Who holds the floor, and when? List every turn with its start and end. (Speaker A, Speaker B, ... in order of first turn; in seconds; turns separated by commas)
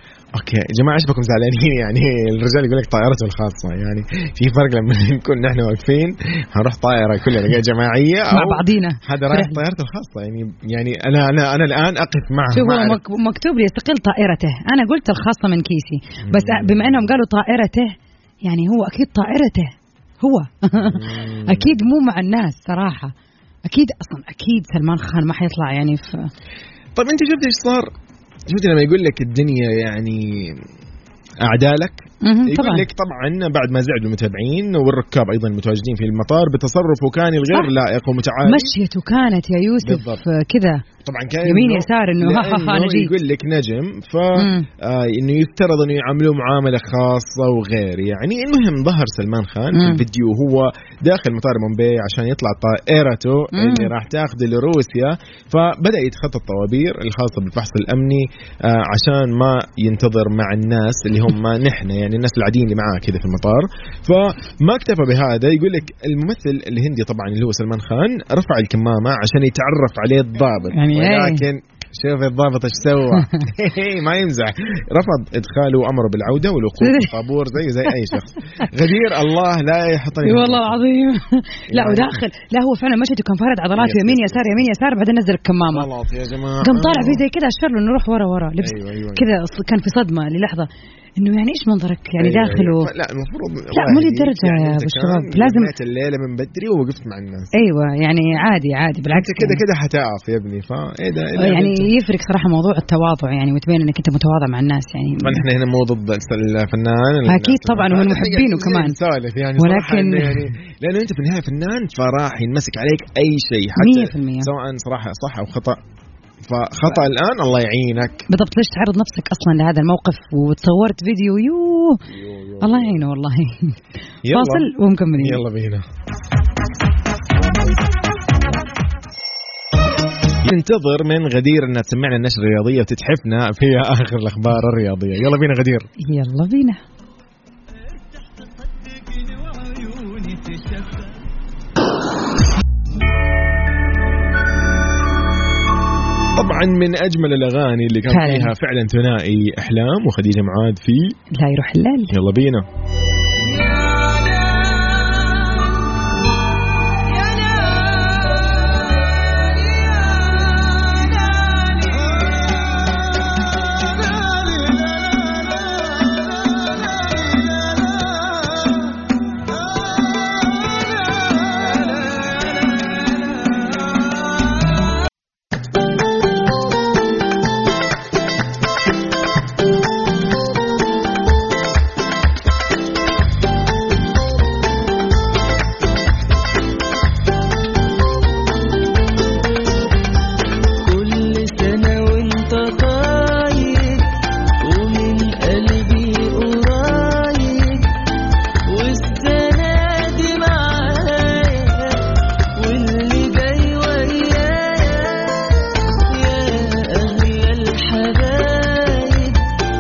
Speaker A: 0.3-13.0, Speaker B: 8.3-9.6, Speaker B: 12.5-23.1, Speaker A: 16.2-17.1, Speaker A: 20.8-21.7, Speaker B: 23.7-26.3, Speaker A: 26.9-27.9, Speaker A: 28.5-30.7, Speaker A: 31.4-38.7, Speaker B: 32.2-32.9, Speaker B: 38.4-40.8, Speaker A: 39.8-40.2, Speaker A: 41.0-80.8, Speaker B: 41.5-43.1, Speaker B: 44.4-44.7, Speaker B: 49.7-50.0, Speaker B: 53.5-53.9, Speaker B: 70.7-71.5, Speaker B: 76.8-77.1, Speaker B: 80.2-85.9, Speaker A: 81.7-82.2, Speaker A: 83.8-84.7, Speaker A: 85.7-87.2, Speaker B: 86.6-92.9, Speaker A: 88.6-89.2, Speaker A: 92.2-97.5, Speaker B: 93.7-95.7, Speaker B: 97.5-99.6, Speaker A: 99.1-101.9, Speaker B: 101.4-105.4, Speaker A: 105.2-115.8, Speaker B: 107.3-109.0, Speaker B: 109.6-110.5, Speaker B: 113.8-114.5, Speaker A: 116.4-118.3, Speaker B: 118.3-122.0, Speaker A: 122.1-123.0, Speaker B: 122.6-123.8, Speaker A: 124.2-125.8, Speaker B: 124.3-125.4, Speaker A: 130.4-135.9, Speaker B: 136.0-136.8, Speaker C: 139.4-140.8, Speaker A: 146.3-151.2, Speaker B: 148.1-148.5, Speaker B: 151.3-152.1, Speaker A: 152.1-152.7, Speaker C: 154.1-155.6, Speaker C: 157.1-158.4, Speaker C: 160.8-162.2, Speaker C: 164.2-164.7, Speaker C: 190.8-197.9, Speaker C: 198.7-202.0, Speaker C: 202.6-209.4